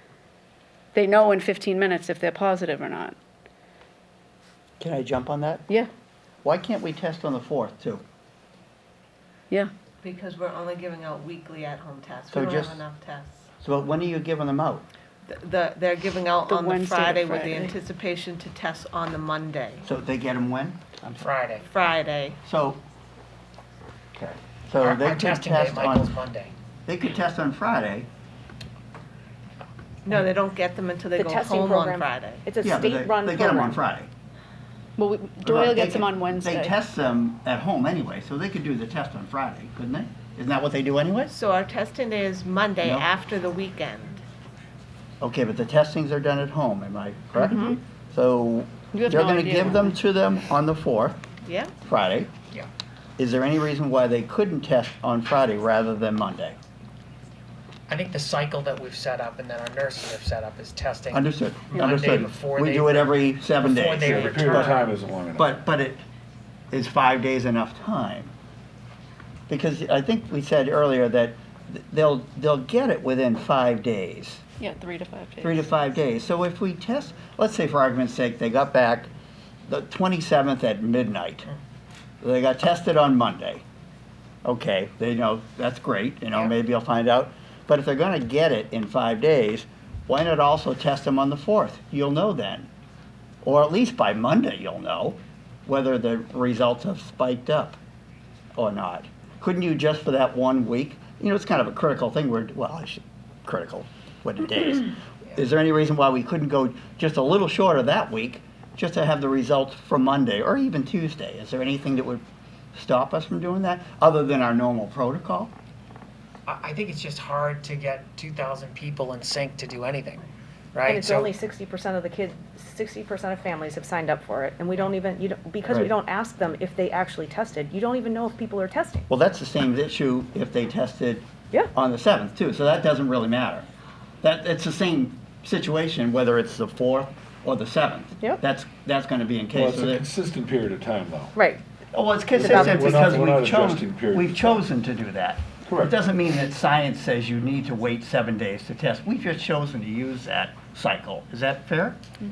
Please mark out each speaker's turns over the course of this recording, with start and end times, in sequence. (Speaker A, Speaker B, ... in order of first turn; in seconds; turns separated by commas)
Speaker A: 0.9-3.2, Speaker B: 4.8-5.7, Speaker B: 6.4-8.0, Speaker C: 10.0-13.5, Speaker B: 12.3-12.8, Speaker B: 13.6-14.8, Speaker C: 15.2-19.8, Speaker A: 16.4-17.7, Speaker B: 19.8-21.3, Speaker D: 21.2-21.7, Speaker C: 21.6-22.4, Speaker B: 22.4-22.8, Speaker B: 24.1-26.1, Speaker D: 24.8-26.5, Speaker B: 26.9-28.1, Speaker C: 30.0-32.5, Speaker E: 31.1-33.8, Speaker B: 32.6-34.1, Speaker A: 35.0-36.7, Speaker B: 35.4-41.3, Speaker C: 41.3-44.2, Speaker B: 42.8-43.1, Speaker B: 45.2-51.2, Speaker A: 47.4-47.8, Speaker A: 48.9-50.0, Speaker C: 51.4-51.7, Speaker B: 51.8-52.3, Speaker B: 53.2-56.6, Speaker D: 57.9-64.8, Speaker B: 61.1-64.8, Speaker F: 64.0-65.5, Speaker B: 65.3-66.0, Speaker B: 66.7-68.3, Speaker B: 69.5-74.4, Speaker A: 74.6-75.6, Speaker B: 75.4-79.1, Speaker B: 79.7-81.5, Speaker B: 82.2-83.6, Speaker B: 84.4-92.7, Speaker B: 93.4-97.8, Speaker B: 98.5-115.5, Speaker D: 116.5-121.3, Speaker E: 120.8-129.0, Speaker B: 125.7-125.9, Speaker B: 129.1-133.7, Speaker B: 134.2-140.0, Speaker F: 139.5-141.3, Speaker E: 141.3-141.6, Speaker B: 141.9-152.0, Speaker F: 142.4-144.6, Speaker E: 142.4-143.2